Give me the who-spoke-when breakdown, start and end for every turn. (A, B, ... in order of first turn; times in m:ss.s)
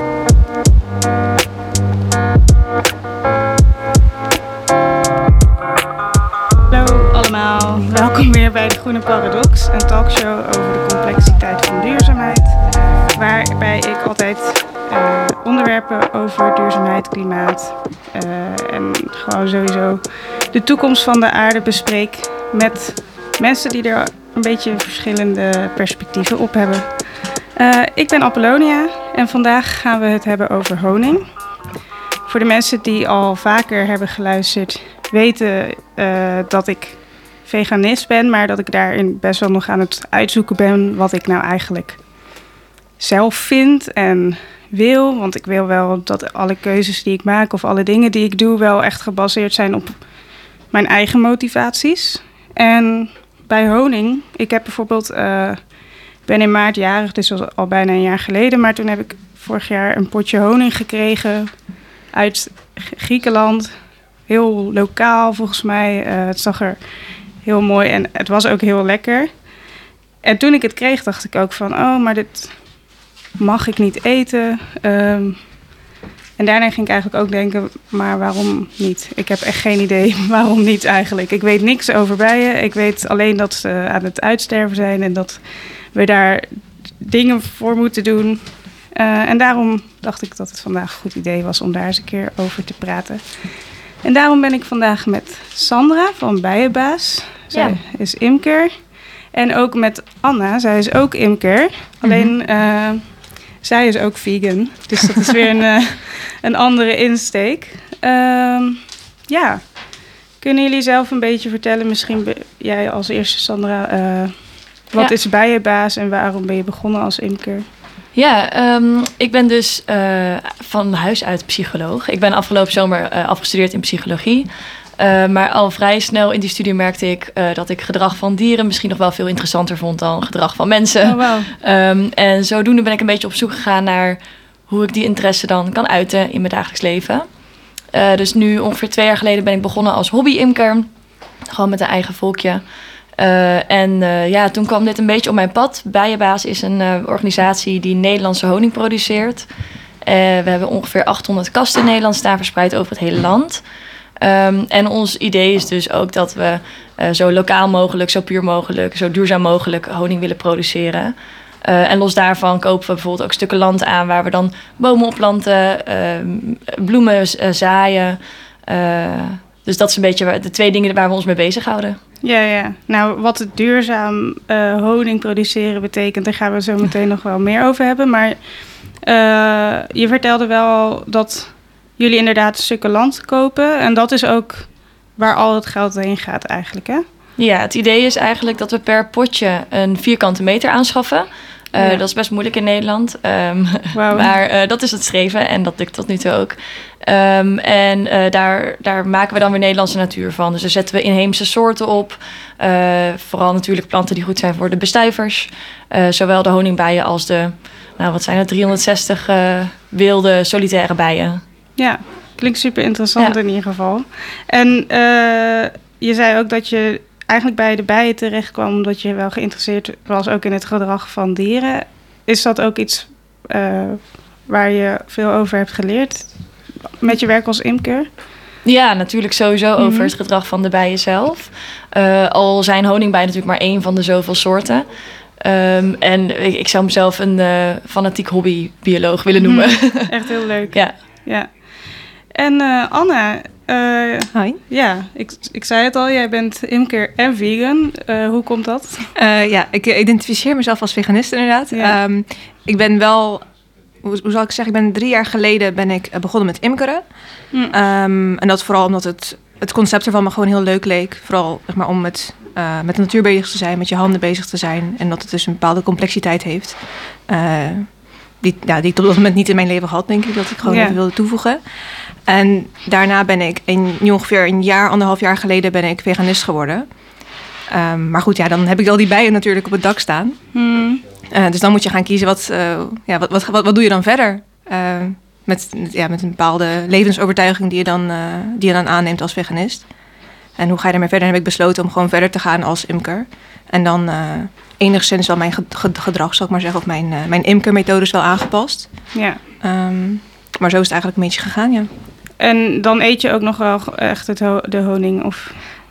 0:06.7-0:31.3 A
0:32.3-0:42.0 A
0:43.0-1:01.6 A
1:02.1-1:09.5 A
1:10.2-1:15.7 A
1:16.4-1:57.7 A
1:37.5-1:37.8 B
1:58.1-2:17.3 B
2:11.0-2:11.5 A
2:17.9-2:20.9 B
2:21.5-2:22.6 B
2:23.2-2:29.5 B
2:30.0-2:33.6 B
2:34.2-2:52.0 B
2:52.2-3:07.0 A
3:07.4-3:31.4 B
3:11.7-3:12.0 A
3:13.9-3:14.3 A
3:31.8-3:46.3 A
3:46.9-3:48.1 A
3:48.6-4:00.2 B
3:49.8-3:50.1 A
3:59.4-4:09.1 A
4:00.7-4:01.0 B
4:04.3-4:04.6 C
4:09.1-4:31.6 C
4:11.7-4:12.0 A
4:17.5-4:17.8 A
4:30.6-4:31.0 A
4:32.2-4:36.9 C
4:37.7-4:40.4 C
4:40.5-4:41.0 A
4:41.3-4:49.9 C
4:50.6-5:01.9 C
4:59.1-4:59.4 A
5:02.4-5:05.6 A